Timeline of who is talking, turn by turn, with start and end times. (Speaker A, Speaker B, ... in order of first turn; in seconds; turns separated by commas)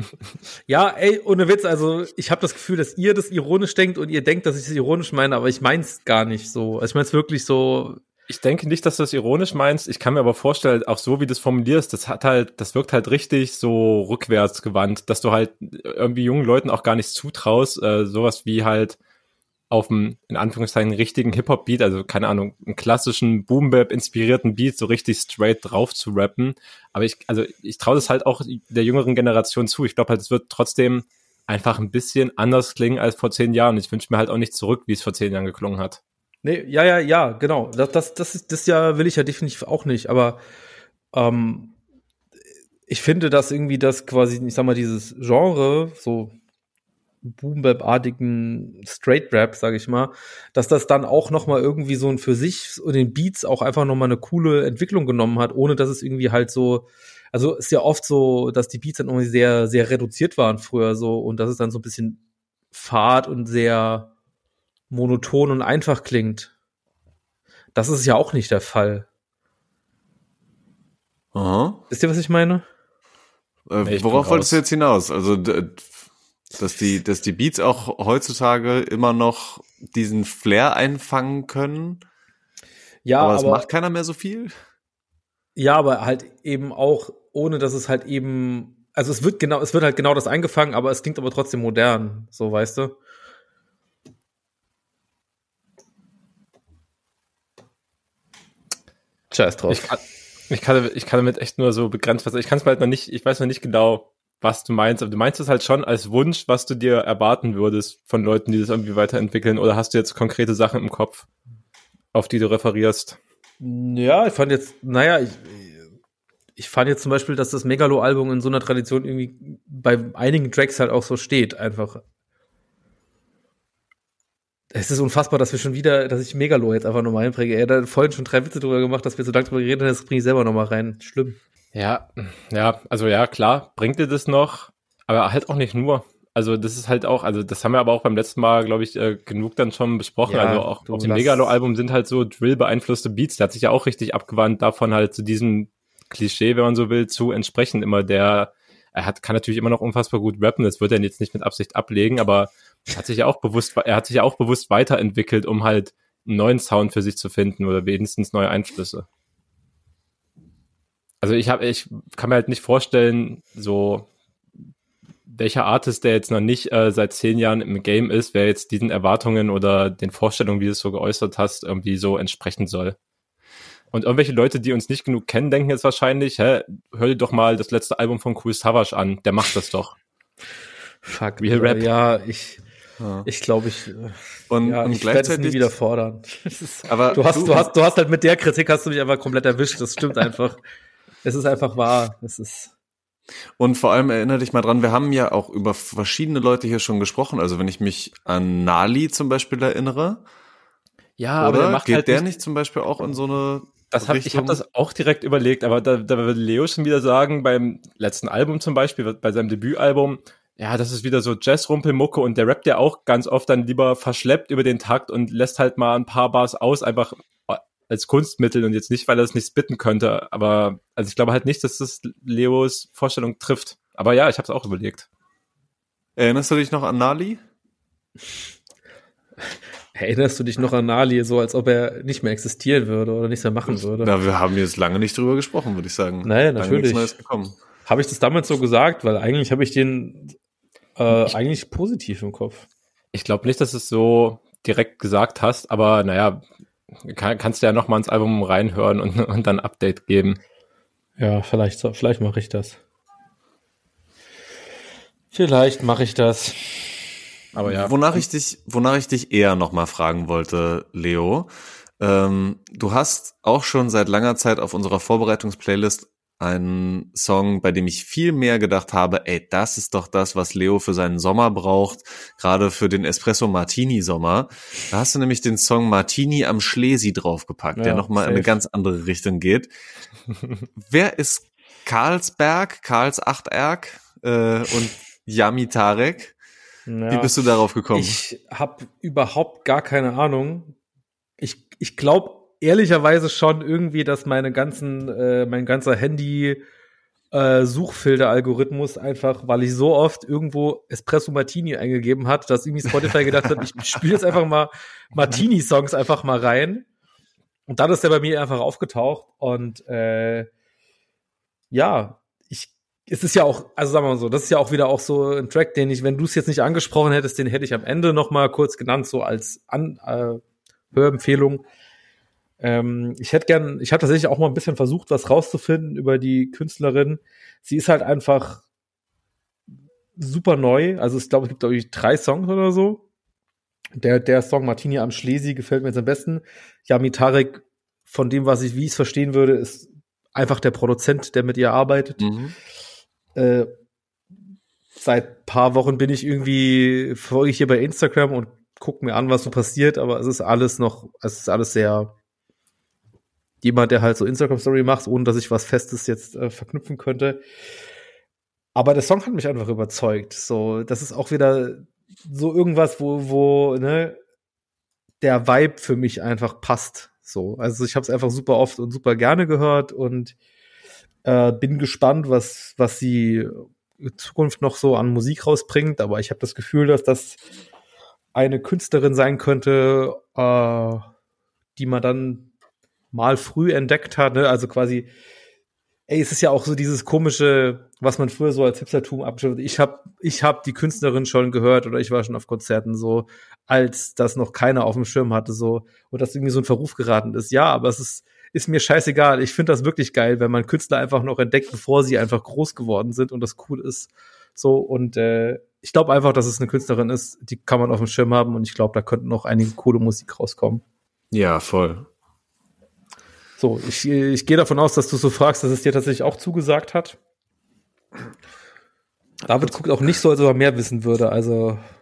Speaker A: 0.7-8.0, Speaker B: 8.3-19.0, Speaker B: 19.7-36.0, Speaker A: 36.4-40.4, Speaker A: 41.1-41.7, Speaker A: 42.9-46.3, Speaker A: 47.2-62.2, Speaker A: 62.7-64.1, Speaker A: 64.9-66.5, Speaker A: 67.7-69.1, Speaker C: 71.3-71.8, Speaker A: 71.9-72.6, Speaker C: 73.7-75.9, Speaker B: 73.8-74.6, Speaker C: 76.5-82.0, Speaker A: 83.0-83.7, Speaker C: 83.2-84.5, Speaker A: 85.5-93.0, Speaker A: 99.3-99.9, Speaker B: 99.7-111.3, Speaker B: 112.1-113.2, Speaker A: 113.6-115.8, Speaker A: 116.6-122.0, Speaker A: 124.7-131.4, Speaker B: 131.7-159.1, Speaker A: 140.2-141.5, Speaker B: 161.2-164.1, Speaker B: 165.3-172.9, Speaker B: 173.9-179.9, Speaker A: 181.1-182.6, Speaker B: 181.4-181.9, Speaker C: 183.0-183.3, Speaker A: 183.2-190.6, Speaker C: 184.5-185.7, Speaker C: 186.9-187.7, Speaker A: 191.2-192.7, Speaker C: 193.6-200.2, Speaker B: 201.2-202.2, Speaker C: 201.4-204.6, Speaker B: 203.9-225.1, Speaker C: 226.2-227.4, Speaker A: 229.9-234.1, Speaker C: 233.7-237.6, Speaker A: 236.2-237.1, Speaker A: 237.9-240.4, Speaker A: 241.0-242.7, Speaker B: 243.1-246.4, Speaker B: 247.0-250.4, Speaker A: 251.2-252.8, Speaker A: 255.3-256.8, Speaker B: 257.5-257.9, Speaker C: 257.6-279.7, Speaker A: 277.7-278.5, Speaker C: 280.8-286.3, Speaker A: 286.9-287.3, Speaker C: 287.1-288.2, Speaker A: 287.9-290.7, Speaker A: 291.4-296.6, Speaker A: 297.3-306.9, Speaker A: 307.7-310.5, Speaker A: 311.7-320.4, Speaker A: 320.9-321.6, Speaker A: 322.6-328.6, Speaker A: 330.2-333.0, Speaker A: 334.0-342.2, Speaker C: 342.2-342.6, Speaker A: 343.3-343.7, Speaker A: 345.0-352.1, Speaker A: 353.6-357.4, Speaker A: 358.7-364.2, Speaker A: 365.2-370.4, Speaker A: 371.2-377.4, Speaker A: 378.3-381.1, Speaker A: 381.8-382.5, Speaker A: 383.1-385.1, Speaker A: 386.1-410.8, Speaker C: 411.3-412.1, Speaker A: 413.6-417.2, Speaker A: 419.5-421.8